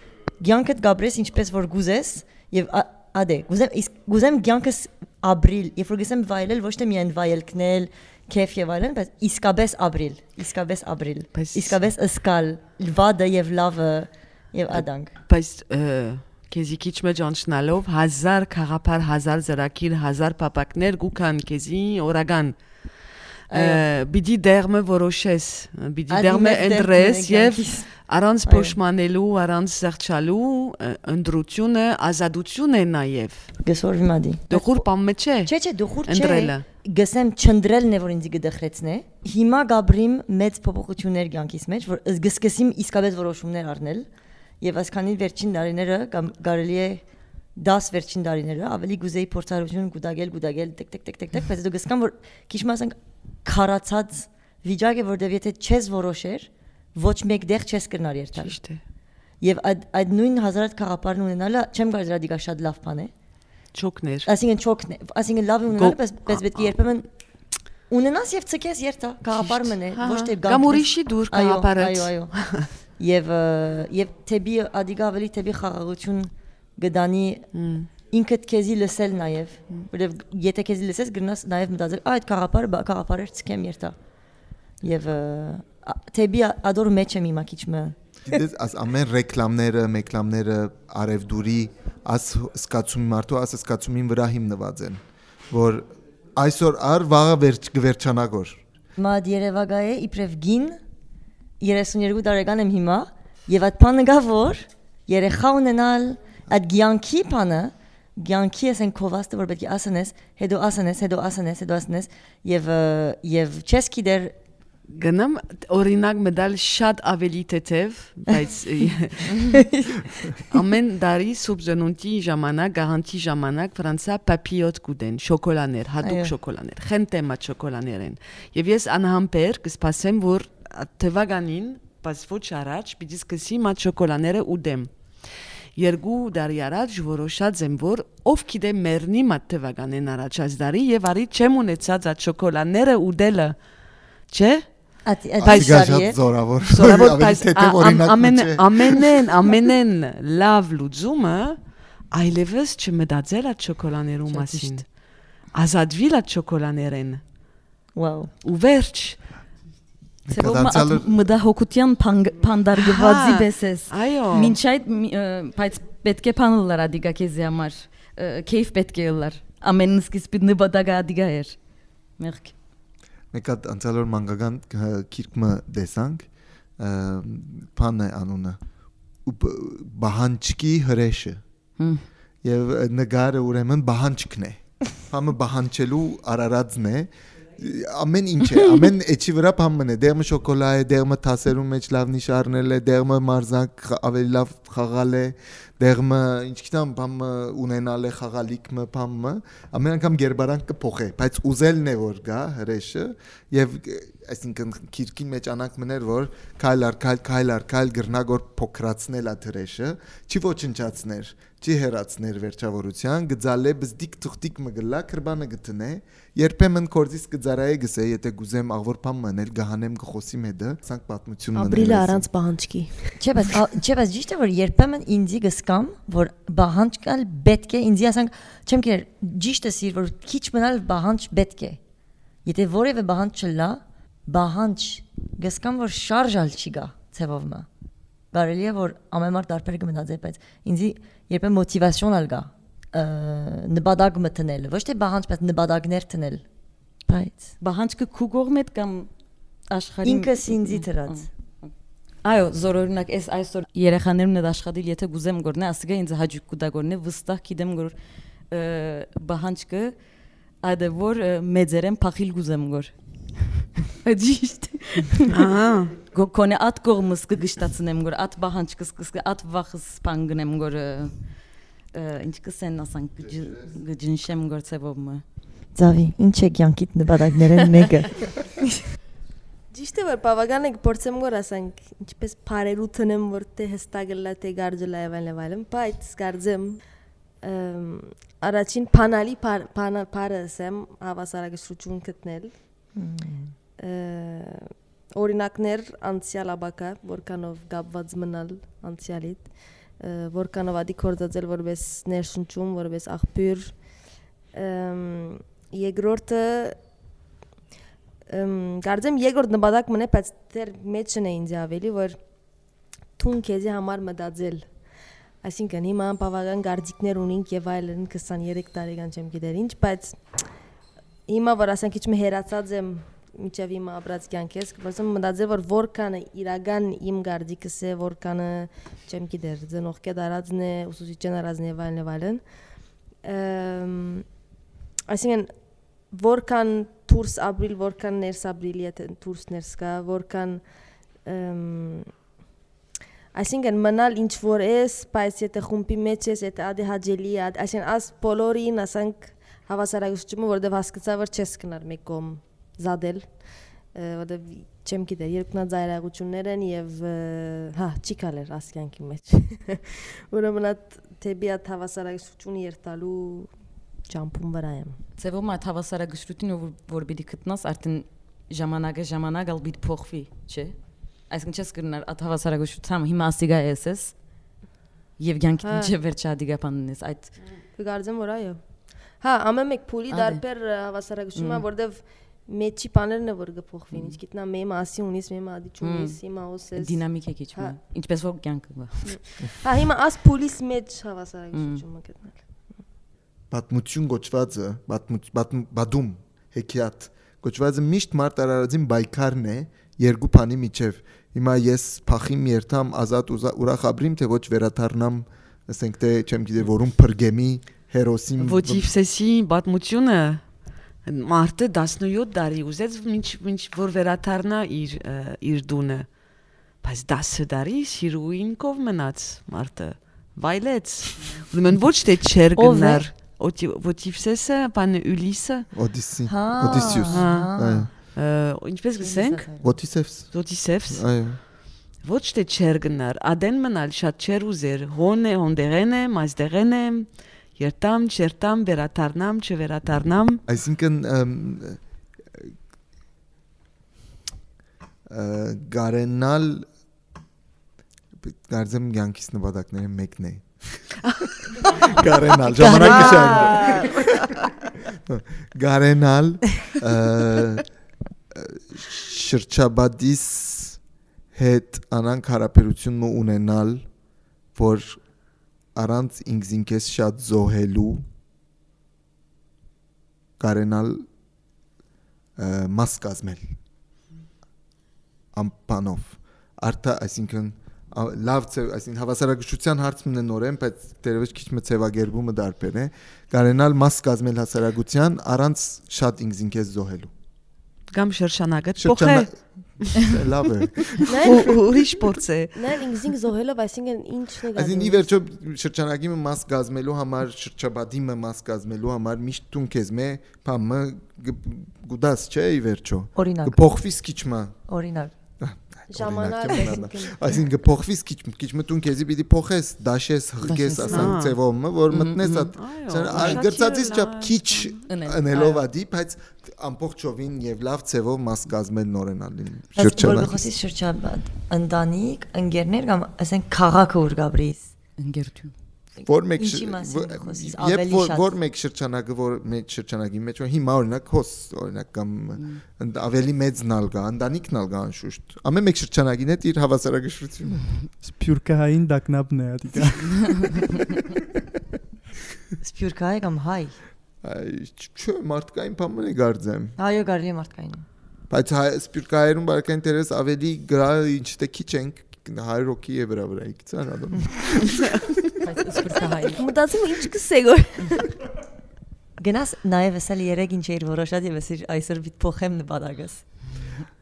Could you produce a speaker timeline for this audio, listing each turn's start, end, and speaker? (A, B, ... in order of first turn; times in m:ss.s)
0:00.4-0:15.1 A
0:11.3-0:11.8 B
0:14.7-0:33.5 B
0:23.5-0:23.8 A
0:26.1-0:27.9 A
0:28.4-0:28.8 A
0:33.6-0:34.9 A
0:34.5-0:35.5 B
0:35.4-0:44.1 A
0:36.0-0:36.6 B
0:44.6-0:47.0 A
0:47.6-0:58.6 A
0:58.4-0:58.8 B
0:59.4-1:03.1 A
1:03.7-1:04.3 B
1:04.2-1:07.0 A
1:05.7-1:06.4 B
1:07.9-1:12.4 A
1:09.3-1:12.7 B
1:13.0-1:17.5 A
1:17.5-1:17.9 B
1:18.1-1:24.0 A
1:24.8-1:28.4 A
1:28.2-1:38.6 C
1:39.0-1:40.8 A
1:41.6-1:54.3 A
1:54.9-1:59.6 B
1:59.5-2:00.0 A
2:00.4-2:23.6 B
2:06.0-2:06.3 A
2:24.3-2:24.7 B
2:25.0-2:26.2 A
2:25.4-2:29.1 C
2:25.4-2:26.0 B
2:26.6-2:35.0 B
2:34.4-2:34.7 A
2:35.5-2:37.2 B
2:37.9-2:38.3 A
2:38.4-2:39.2 B
2:40.2-2:41.1 C
2:40.3-2:51.6 D
2:42.8-2:44.5 B
2:52.2-2:52.5 D
2:53.3-2:58.6 C
2:59.1-3:01.4 C
3:01.8-3:02.0 D
3:02.4-3:42.2 C
3:41.5-3:43.2 E
3:43.2-3:51.8 A
3:52.4-3:57.7 A
3:58.3-4:06.4 A
4:07.1-4:07.5 A
4:07.6-4:09.1 D
4:09.7-4:11.7 D
4:10.0-4:11.3 A
4:12.2-4:17.9 D
4:18.5-4:20.0 D
4:20.6-4:25.4 D
4:25.3-4:25.9 B
4:26.1-4:31.4 D
4:31.9-4:35.2 D
4:35.7-4:38.2 A
4:39.7-4:46.8 E
4:47.4-4:52.5 E
4:52.9-4:53.5 A
4:53.8-5:03.8 E
5:04.5-5:06.8 E
5:08.3-5:12.2 E
5:13.2-5:14.7 E
5:15.4-5:20.2 E
5:21.3-5:32.4 E
5:33.2-5:34.3 E
5:35.1-5:35.5 E
5:36.0-5:40.6 E
5:41.2-5:42.1 E
5:43.3-6:03.5 E
6:04.1-6:05.0 E
6:05.2-6:14.2 D
6:15.2-6:17.4 D
6:15.6-6:15.9 E
6:17.7-6:27.8 E
6:20.1-6:20.4 D
6:21.3-6:21.6 D
6:23.9-6:24.2 D
6:25.8-6:29.4 D
6:29.0-6:32.8 E
6:31.5-6:31.8 D
6:33.5-6:48.8 C
6:48.4-7:05.7 B
7:02.6-7:03.1 A
7:05.7-7:07.9 C
7:06.2-7:07.9 A
7:06.7-7:20.4 B
7:09.0-7:09.7 E
7:09.6-7:11.4 C
7:20.5-7:21.8 C
7:25.1-7:26.6 C
7:28.2-7:31.1 C
7:31.7-7:34.0 C
7:32.5-7:33.9 B
7:32.5-7:33.6 A
7:35.0-7:37.8 C
7:38.3-7:40.8 C
7:41.3-7:43.9 C
7:44.5-7:45.0 C
7:45.7-7:48.0 C
7:50.4-7:51.1 C
7:52.4-7:53.6 C
7:55.3-8:07.1 C
8:07.9-8:10.1 B
8:08.8-8:11.4 C
8:11.0-8:12.8 B
8:11.1-8:11.7 E
8:12.5-8:15.1 E
8:14.5-8:24.6 C
8:23.1-8:23.6 A
8:24.7-8:25.1 A
8:25.4-8:40.4 C
8:25.9-8:27.3 E
8:30.4-8:31.2 D
8:30.9-8:31.4 B
8:31.9-8:32.5 D
8:32.6-8:34.8 B
8:33.1-8:33.4 D
8:34.9-8:35.6 D
8:39.8-8:44.7 A
8:45.0-8:45.5 D
8:46.0-8:48.3 A
8:46.0-8:57.8 C
8:58.0-9:00.9 F
9:02.6-9:03.8 A
9:04.2-9:06.8 C
9:06.8-9:07.8 A
9:08.3-9:15.0 C
9:15.4-9:16.4 D
9:16.3-9:18.1 E
9:19.2-9:23.6 A